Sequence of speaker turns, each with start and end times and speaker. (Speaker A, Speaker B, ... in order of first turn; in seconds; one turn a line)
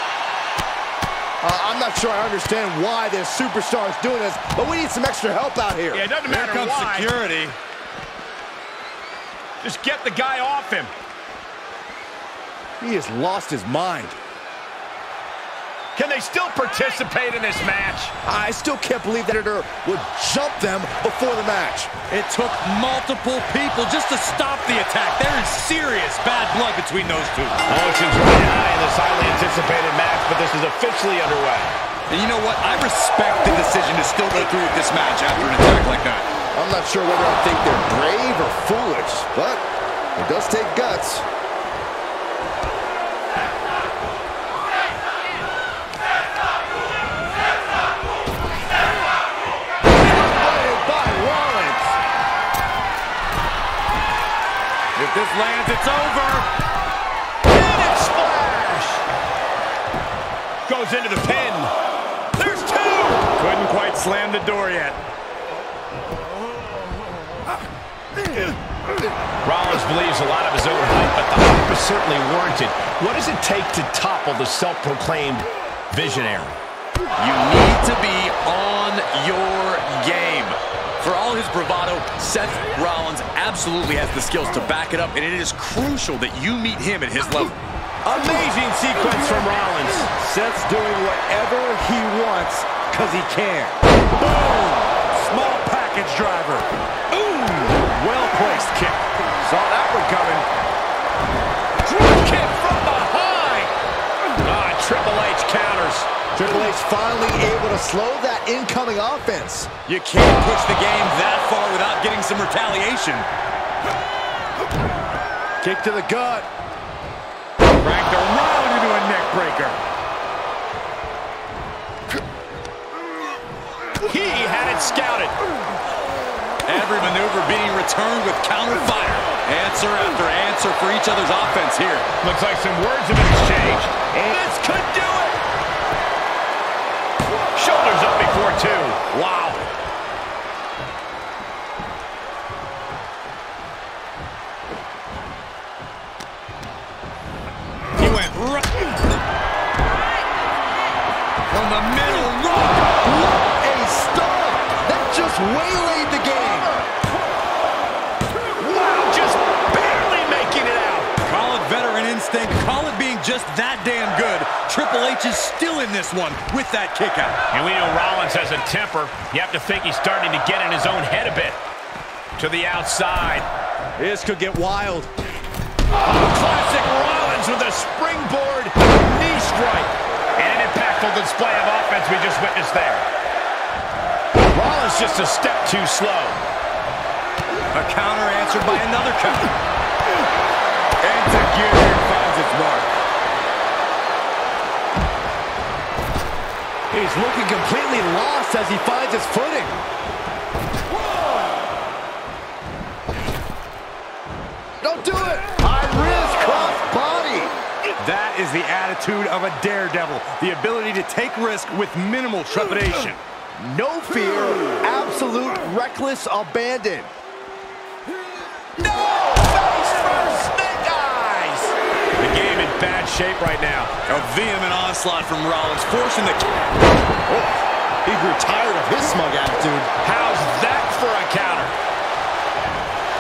Speaker A: 1.4-6.1
Speaker B: 5.9-7.1
Speaker C: 6.2-7.6
Speaker B: 9.6-10.9
Speaker A: 12.8-14.2
Speaker B: 15.9-18.1
Speaker A: 18.2-22.0
Speaker C: 22.1-27.6
Speaker B: 27.7-31.7
Speaker C: 32.1-36.3
Speaker A: 36.5-39.6
Speaker A: 40.2-41.3
Speaker A: 49.9-52.0
Speaker C: 55.0-56.5
Speaker B: 57.5-59.0
Speaker B: 60.7-61.7
Speaker A: 62.4-63.2
Speaker C: 63.2-65.0
Speaker B: 69.4-76.6
Speaker C: 77.2-87.6
Speaker B: 88.1-90.1
Speaker A: 90.0-93.8
Speaker C: 94.2-96.7
Speaker A: 97.2-100.5
Speaker A: 101.9-103.7
Speaker B: 104.4-106.1
Speaker A: 106.3-109.7
Speaker C: 109.9-113.3
Speaker A: 115.6-116.5
Speaker C: 117.8-119.8
Speaker B: 124.0-125.3
Speaker C: 126.6-132.1
Speaker B: 132.2-134.0
Speaker A: 134.1-134.6
Speaker B: 137.6-139.1
Speaker C: 139.2-139.6
Speaker C: 148.0-148.9
Speaker C: 151.5-152.9
Speaker A: 153.0-156.9
Speaker B: 158.5-161.1
Speaker C: 161.2-167.4
Speaker B: 167.5-171.6
Speaker B: 172.4-173.5
Speaker A: 174.0-175.1
Speaker B: 176.0-183.1
Speaker B: 184.5-186.4
Speaker C: 187.7-189.5
Speaker C: 191.0-192.9
Speaker A: 196.9-199.8
Speaker A: 204.8-207.6
Speaker C: 208.0-213.2
Speaker A: 213.6-217.1
Speaker A: 218.8-221.7
Speaker B: 222.2-223.9
Speaker C: 224.1-226.6
Speaker A: 227.3-227.5
Speaker A: 228.1-229.9
Speaker B: 230.0-231.8